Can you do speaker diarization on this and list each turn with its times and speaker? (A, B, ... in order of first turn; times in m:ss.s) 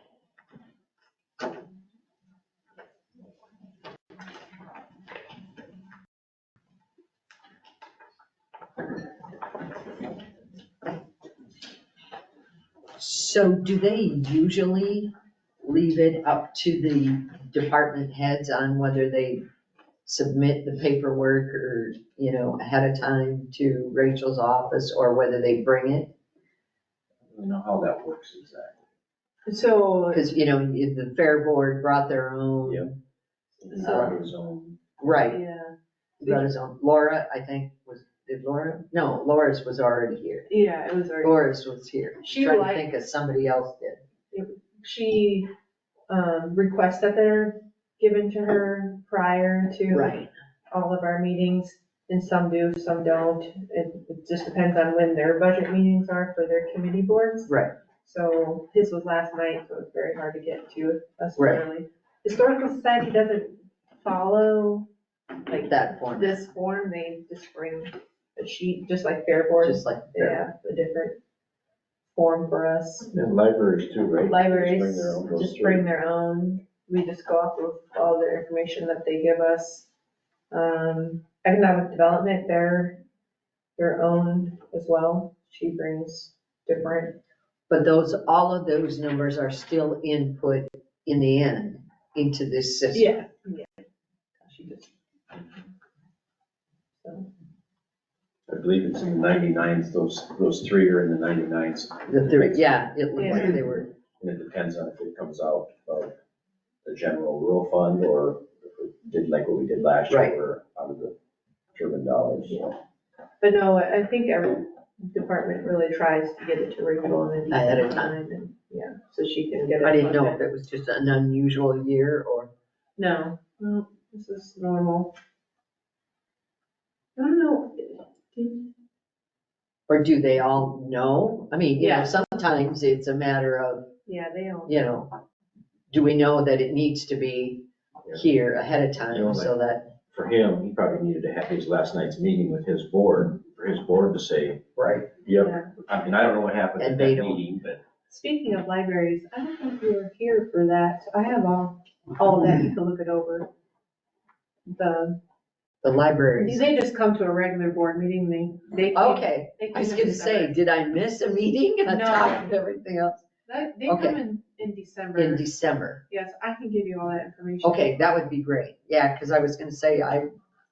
0:13.0-0:19.4 A
0:20.1-0:26.1 A
0:27.3-0:28.8 B
0:29.5-0:30.2 C
0:30.1-0:33.0 A
0:32.6-0:32.9 B
0:33.6-0:34.8 B
0:33.7-0:34.2 C
0:33.8-0:34.2 A
0:35.0-0:35.4 A
0:35.2-0:36.5 C
0:36.2-0:40.5 A
0:40.5-0:41.4 C
0:41.2-0:44.0 A
0:42.2-0:42.9 C
0:44.3-0:45.5 C
0:46.1-1:04.9 C
0:49.9-0:50.3 A
0:57.5-0:57.8 A
1:01.4-1:01.6 A
1:05.5-1:11.2 C
1:05.5-1:06.4 A
1:09.6-1:10.4 A
1:12.1-1:13.1 C
1:13.1-1:15.9 B
1:14.2-1:19.9 C
1:20.5-1:23.0 C
1:23.8-1:27.2 C
1:27.7-1:33.1 A
1:32.9-1:33.8 C
1:34.4-1:35.4 C
1:37.0-1:37.3 C
1:38.5-1:42.3 B
1:42.1-1:44.0 A
1:43.2-1:43.6 C
1:44.2-1:46.2 B
1:46.8-1:51.2 B
1:50.1-1:50.4 A
1:51.7-1:52.7 B
1:52.5-1:52.8 C
1:53.4-2:00.4 C
1:57.5-1:58.2 A
1:59.8-2:02.5 A
2:03.0-2:05.2 C
2:07.2-2:08.7 C
2:09.9-2:13.9 A
2:11.8-2:12.2 C
2:14.1-2:14.8 C
2:14.7-2:15.2 A
2:15.9-2:19.9 A
2:19.1-2:19.5 B
2:20.1-2:24.7 B
2:24.8-2:25.1 A
2:25.2-2:27.8 B
2:25.4-2:25.7 C
2:26.8-2:27.4 A
2:28.1-2:33.5 C
2:34.7-2:35.2 C
2:35.8-2:36.7 A
2:36.4-2:40.6 C
2:38.9-2:43.3 A
2:41.8-2:42.5 C
2:43.5-2:45.5 C
2:43.9-2:44.2 A
2:45.2-2:46.0 A
2:46.1-2:48.1 C
2:47.6-2:50.3 A